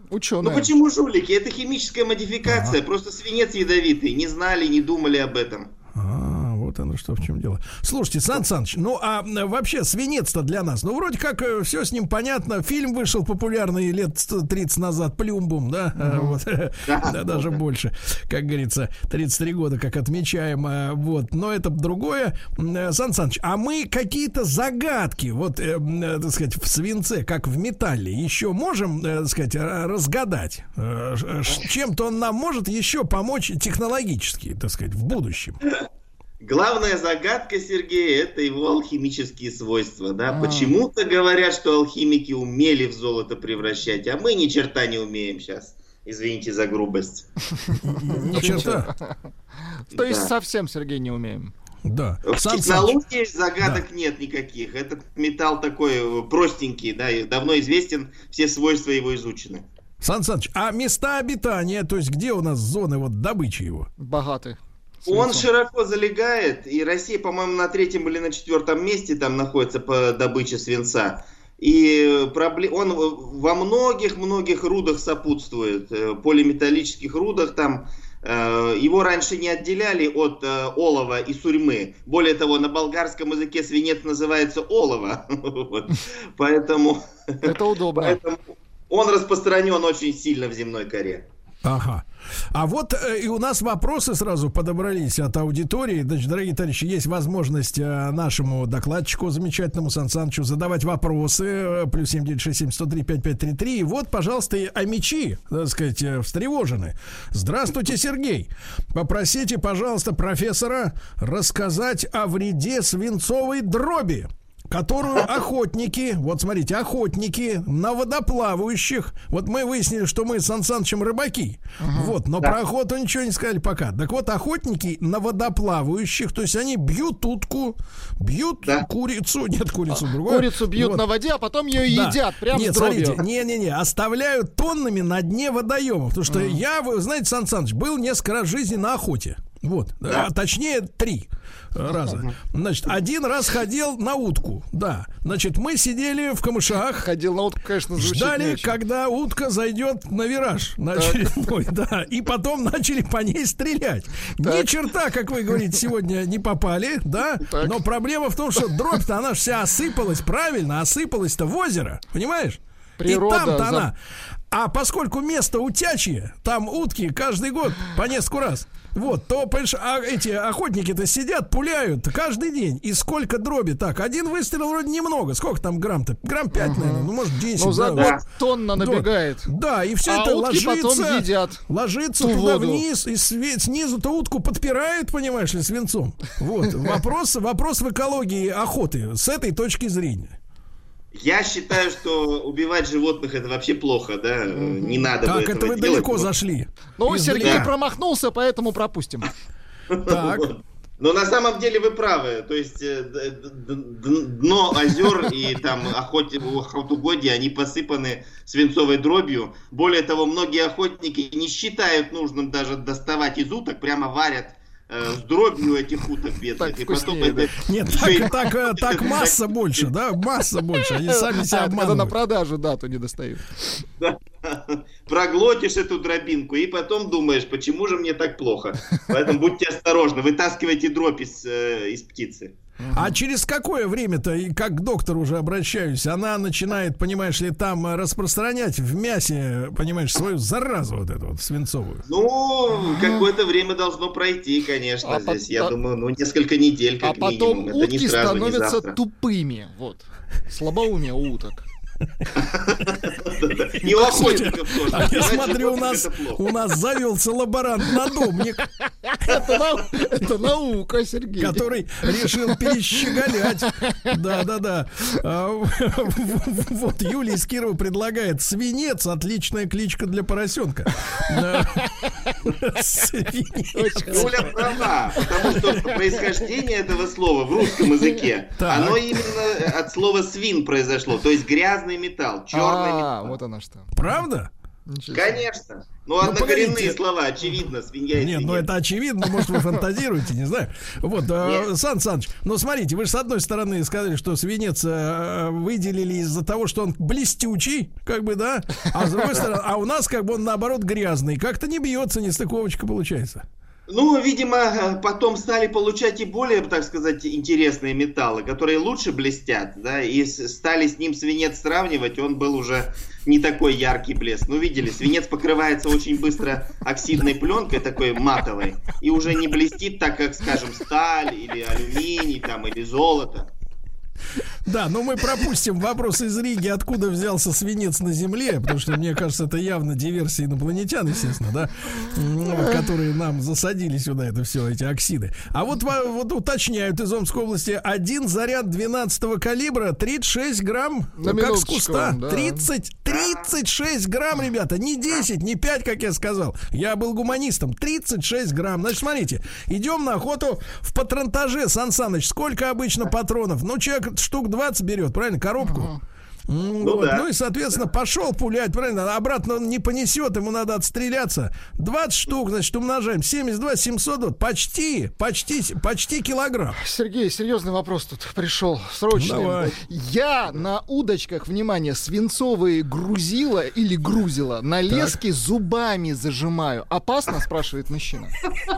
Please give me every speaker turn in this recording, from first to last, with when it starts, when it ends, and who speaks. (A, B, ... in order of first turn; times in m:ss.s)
0:00.1-0:00.7 A
0:00.4-0:05.7 B
0:02.4-0:02.8 C
0:05.9-0:35.6 C
0:16.0-0:16.4 A
0:16.9-0:17.6 B
0:36.4-0:47.3 B
0:40.3-0:40.8 A
0:47.8-0:48.9 C
0:47.9-0:49.2 A
0:48.3-0:48.6 B
0:49.7-0:51.5 A
0:49.9-0:50.3 B
0:51.8-0:53.0 C
0:52.2-0:59.6 B
1:00.0-1:03.9 C
1:04.0-1:05.5 A
1:05.1-1:31.2 B
1:27.4-1:28.2 A
1:31.6-2:11.0 C
2:01.8-2:02.2 A
2:09.9-2:13.2 A
2:11.8-2:27.1 C
2:16.3-2:16.6 A
2:22.0-2:22.3 B
2:27.0-2:28.7 A
2:28.0-2:43.9 C
2:31.0-2:31.5 A
2:34.4-2:34.8 A
2:37.4-2:37.8 A
2:43.0-2:43.9 A
2:44.5-2:58.2 C
2:56.6-2:59.5 A
2:57.9-2:58.2 B
2:58.8-3:10.4 C
3:00.0-3:01.6 A
3:02.2-3:02.8 A
3:11.1-3:16.3 B
3:14.5-3:15.1 A
3:15.2-3:17.7 C
3:17.0-3:19.3 A
3:19.9-3:39.9 B
3:20.0-3:20.5 C
3:36.6-3:37.5 A
3:37.6-3:42.1 C
3:41.0-3:43.8 A
3:44.0-3:52.5 B
3:52.8-3:53.1 A
3:52.9-4:02.0 C
4:02.1-4:09.0 B
4:02.8-4:03.2 A
4:05.0-4:05.7 A
4:07.0-4:11.6 A
4:12.4-4:16.5 B
4:13.8-4:18.6 C
4:18.9-4:24.1 A
4:21.4-4:31.9 C
4:32.4-4:34.7 C
4:33.7-4:34.6 A
4:34.1-4:43.4 B
4:35.2-4:35.8 A
4:35.4-4:36.1 C
4:38.6-4:39.3 C
4:42.5-4:44.0 A
4:43.9-4:44.5 C
4:44.9-4:45.4 A
4:45.1-4:48.7 B
4:46.2-4:47.0 C
4:48.1-5:03.4 C
4:51.4-4:51.7 B
5:03.9-5:23.5 B
5:24.6-5:55.9 C
5:41.2-5:42.7 A
5:43.1-5:43.4 B
5:55.6-5:56.0 A
5:56.5-6:06.8 C
5:56.8-5:57.3 B
6:06.7-6:18.4 A
6:09.1-6:09.7 C
6:14.9-6:15.2 C